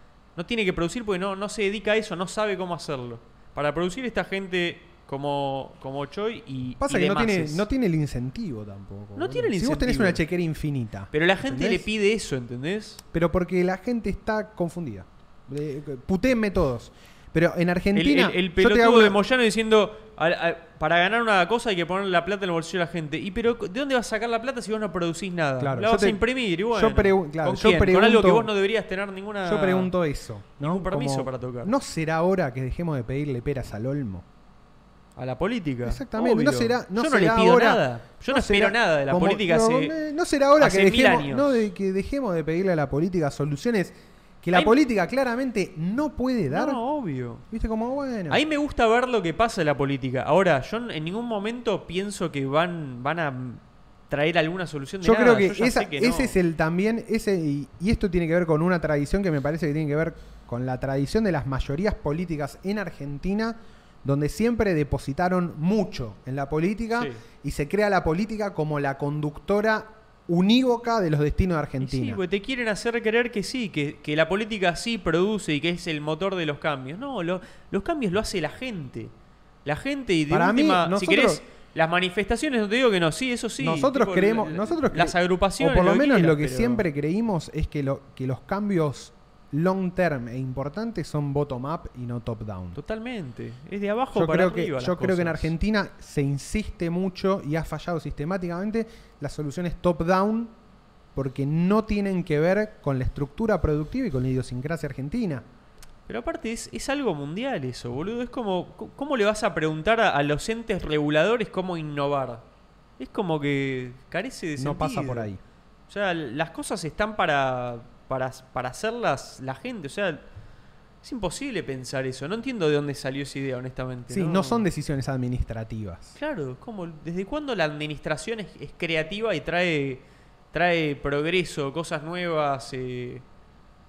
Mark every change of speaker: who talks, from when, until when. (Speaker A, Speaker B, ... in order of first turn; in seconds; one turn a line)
Speaker A: 0.4-7.7
Speaker B: 6.8-11.9
Speaker A: 9.2-10.2
Speaker A: 11.1-13.0
Speaker B: 13.1-19.2
Speaker A: 17.9-29.9
Speaker B: 25.6-28.5
Speaker B: 29.4-34.2
Speaker A: 30.6-31.7
Speaker A: 35.2-40.0
Speaker B: 35.9-46.8
Speaker A: 40.6-41.7
Speaker A: 46.5-47.5
Speaker B: 47.5-48.4
Speaker A: 48.3-56.4
Speaker B: 55.0-72.2
Speaker A: 66.9-67.2
Speaker A: 71.8-79.1
Speaker A: 79.7-86.8
Speaker B: 80.3-81.4
Speaker B: 83.6-92.8
Speaker A: 92.8-95.5
Speaker B: 94.1-100.5
Speaker B: 101.2-105.5
Speaker A: 106.1-112.5
Speaker A: 113.0-115.3
Speaker B: 114.6-115.4
Speaker A: 115.9-120.2
Speaker A: 121.0-124.7
Speaker B: 124.1-126.2
Speaker A: 126.2-133.3